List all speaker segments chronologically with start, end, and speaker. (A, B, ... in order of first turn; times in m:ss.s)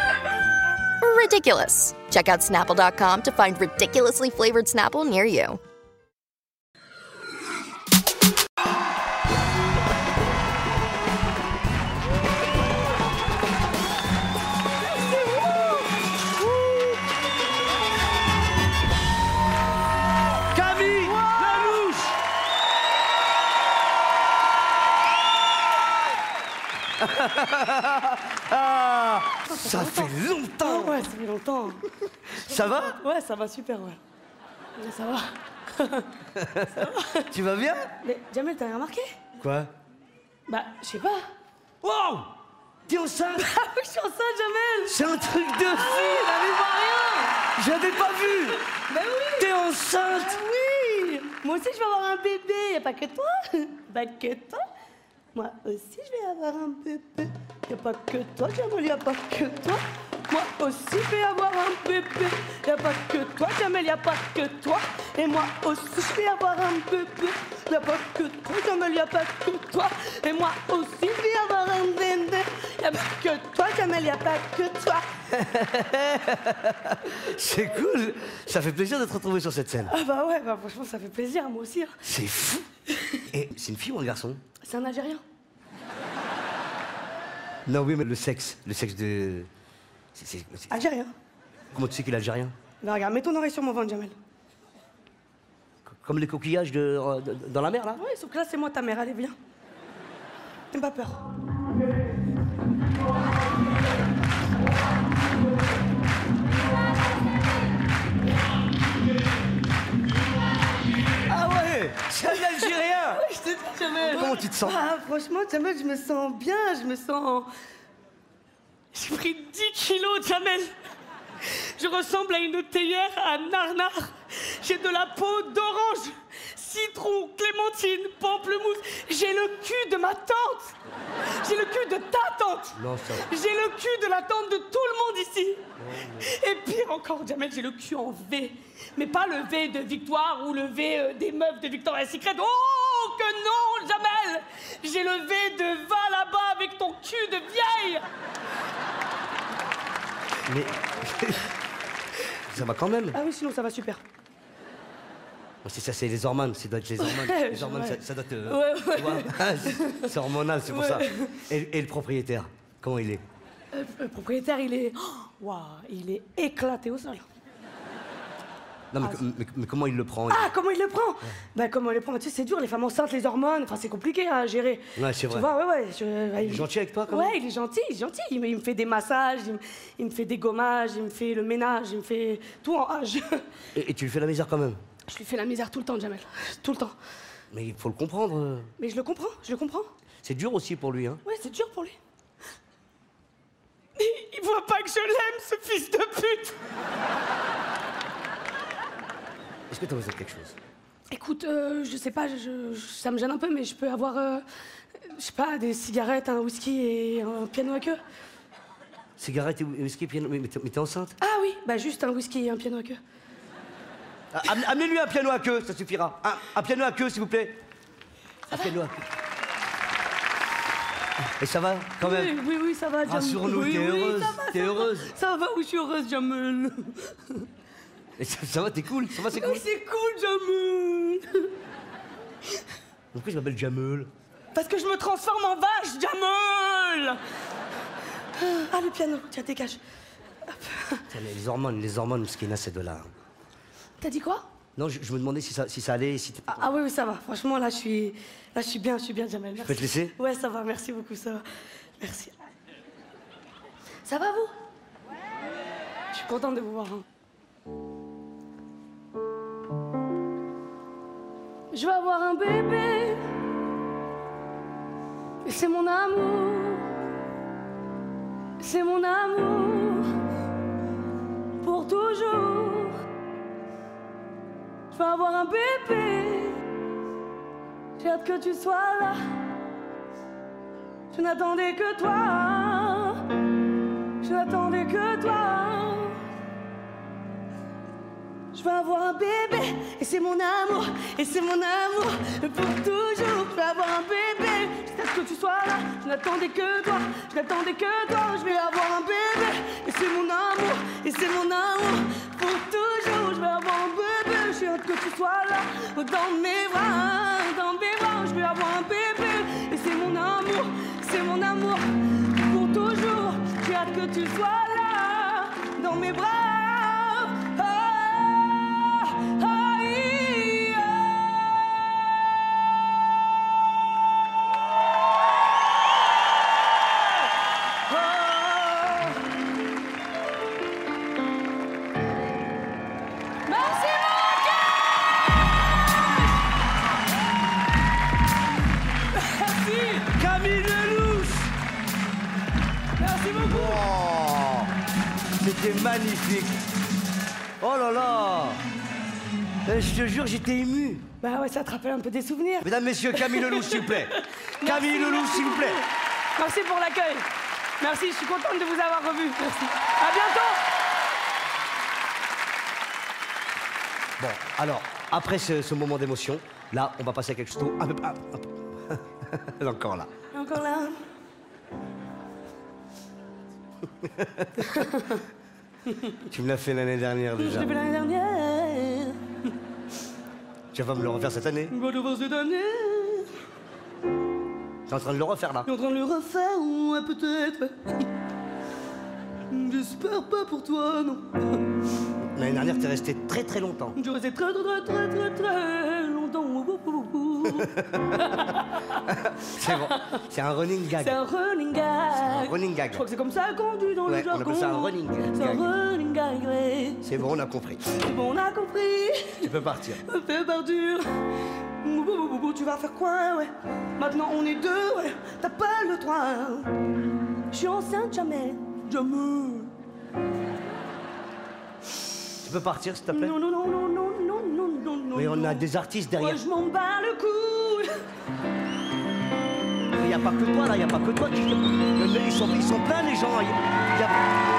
0:01.0-0:05.6 A
0:20.5-0:22.1 B
0:21.0-0:21.9 C
0:27.0-0:31.1 B
0:29.5-0:34.0 C
0:32.3-0:33.0 B
0:34.8-0:37.3 C
0:36.3-0:37.9 B
0:38.0-0:39.2 C
0:39.4-0:39.7 B
0:40.5-0:41.2 C
0:41.8-0:42.3 B
0:42.9-0:43.5 B
0:43.3-0:45.0 C
0:44.9-0:46.4 B
0:45.6-0:47.5 C
0:47.5-0:48.6 B
0:48.3-0:54.6 C
0:49.4-0:50.4 B
0:55.3-1:15.1 C
1:15.3-1:19.9 B
1:19.8-1:22.0 C
1:22.0-1:22.7 B
1:23.3-1:24.4 B
1:24.6-1:25.2 C
1:27.6-1:29.5 B
1:30.1-1:30.7 B
1:30.7-1:31.1 C
1:31.7-1:32.5 B
1:32.8-1:34.2 C
1:35.9-1:38.0 B
1:37.9-1:39.4 C
1:40.7-1:41.3 C
1:51.3-1:53.2 B
1:52.3-1:57.5 C
1:54.0-1:54.8 B
1:58.9-2:00.7 C
2:01.4-2:10.8 C
2:11.3-2:15.7 C
2:12.7-2:13.3 B
2:15.8-2:16.3 B
2:16.2-2:28.0 C
2:30.4-2:31.5 B
2:32.4-2:33.2 B
2:33.1-2:34.0 C
2:35.6-2:43.2 B
2:37.0-2:41.4 C
2:43.7-2:47.3 C
2:48.9-2:50.5 B
2:50.3-3:03.4 C
2:55.0-2:55.5 B
2:56.4-2:57.3 B
3:03.7-3:04.8 B
3:05.0-3:07.0 C
3:07.5-3:08.7 B
3:08.8-3:09.9 C
3:10.2-3:11.2 B
3:11.2-3:12.0 C
3:14.0-3:16.6 C
3:19.7-3:20.6 B
3:21.1-3:24.4 C
3:25.0-3:28.0 C
3:29.2-3:31.2 B
3:31.2-3:33.0 C
3:34.3-3:37.6 B
3:38.5-3:39.1 B
3:41.4-3:42.4 B
3:42.0-3:47.5 C
3:43.0-3:45.1 B
3:48.2-3:49.6 B
3:49.1-3:51.5 C
3:53.1-3:54.1 B
3:54.5-3:57.2 C
3:58.3-3:59.8 C
4:00.5-4:01.1 C
4:01.1-4:03.1 B
4:04.0-4:04.4 C
4:04.8-4:06.7 B
4:06.5-4:11.4 C
4:09.6-4:10.1 B
4:12.0-4:12.3 C
4:14.0-4:14.5 C
4:16.1-4:17.0 C
4:21.7-4:23.4 C
4:25.4-4:27.0 C
4:28.6-4:30.1 C
4:31.6-4:33.0 C
4:34.9-4:36.6 C
4:38.0-4:39.4 C
4:41.1-4:43.4 C
4:44.2-4:46.2 C
4:48.5-5:21.3 C
5:27.9-5:29.2 C
5:33.4-5:35.1 C
5:39.1-5:40.1 C
5:40.1-5:41.5 B
5:43.0-5:43.9 C
5:43.4-5:44.7 B
5:45.4-5:46.6 B
5:47.6-5:48.6 B
5:49.6-5:51.0 B
5:51.2-5:57.3 C
5:52.6-5:55.8 B
5:57.8-6:00.7 C
6:04.2-6:10.1 B
6:10.3-6:11.0 C
6:13.9-6:14.8 B
6:14.7-6:15.2 C
6:16.2-6:17.7 B
6:17.4-6:19.2 C
6:20.7-6:21.7 B
6:21.7-6:23.3 C
6:24.9-6:25.7 B
6:25.6-6:28.1 C
6:29.5-6:31.6 C
6:32.2-6:34.0 B
6:33.9-6:39.1 C
6:37.4-6:38.4 B
6:39.0-6:41.2 B
6:39.6-6:40.2 C
6:41.0-6:47.2 C
6:42.1-6:43.0 B
6:44.1-6:45.7 B
6:47.0-6:48.0 B
6:47.9-6:51.0 C
6:49.4-6:50.0 B
6:51.8-6:56.7 C
6:57.5-6:59.7 C
7:02.4-7:03.4 B
7:03.1-7:08.0 C
7:05.1-7:06.4 B
7:09.9-7:14.2 B